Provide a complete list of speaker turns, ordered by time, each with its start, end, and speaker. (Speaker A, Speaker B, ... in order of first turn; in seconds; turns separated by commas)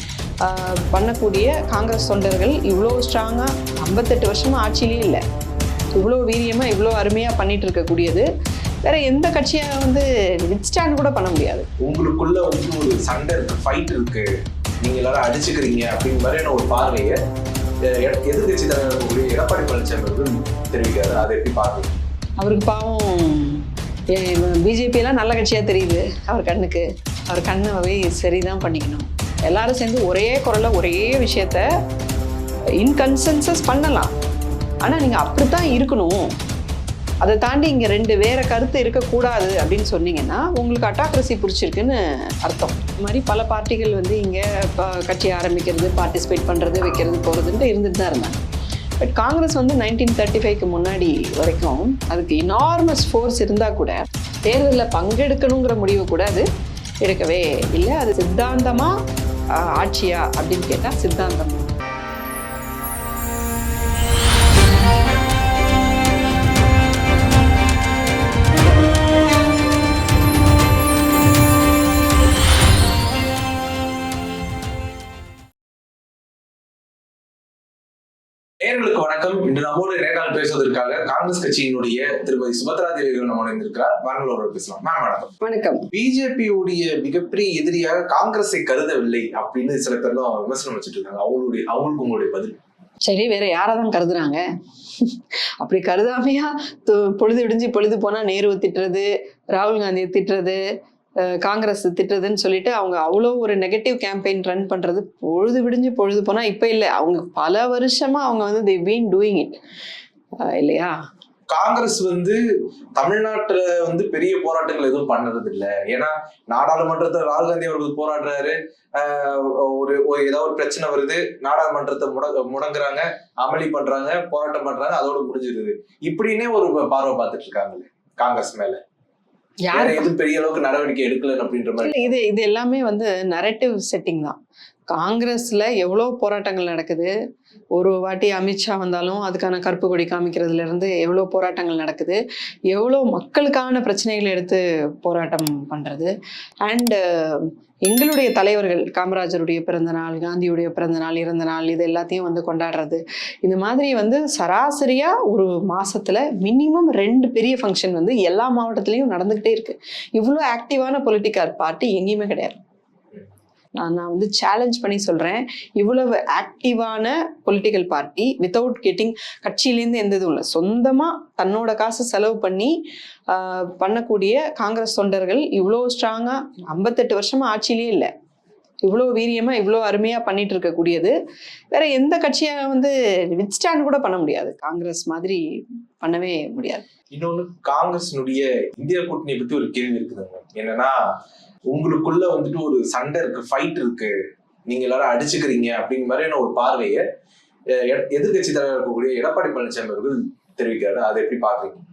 Speaker A: 0.4-5.2, Speaker A: 5.9-8.3, Speaker A: 8.8-11.7, Speaker B: 11.8-14.3, Speaker B: 14.8-17.2, Speaker B: 18.0-21.9, Speaker A: 22.4-31.6, Speaker A: 32.8-34.1, Speaker A: 34.8-36.3, Speaker A: 37.2-48.4, Speaker A: 49.0-56.5, Speaker A: 57.0-59.0, Speaker A: 59.5-61.7, Speaker B: 78.6-85.3, Speaker A: 85.4-85.9, Speaker B: 85.9-92.6, Speaker A: 93.0-94.4, Speaker A: 95.0-100.6, Speaker A: 101.3-109.6, Speaker A: 110.4-111.0, Speaker B: 111.5-112.4, Speaker B: 113.0-128.8, Speaker A: 129.7-130.1, Speaker B: 129.7-132.1, Speaker A: 131.8-134.4, Speaker A: 134.9-137.1, Speaker A: 137.8-146.1, Speaker A: 146.6-162.6, Speaker A: 163.8-172.7, Speaker A: 173.3-178.1, Speaker A: 178.8-181.1, Speaker A: 181.7-185.4, Speaker A: 186.0-186.9, Speaker B: 187.1-191.0, Speaker B: 191.7-194.1, Speaker B: 194.7-197.0, Speaker B: 197.8-201.8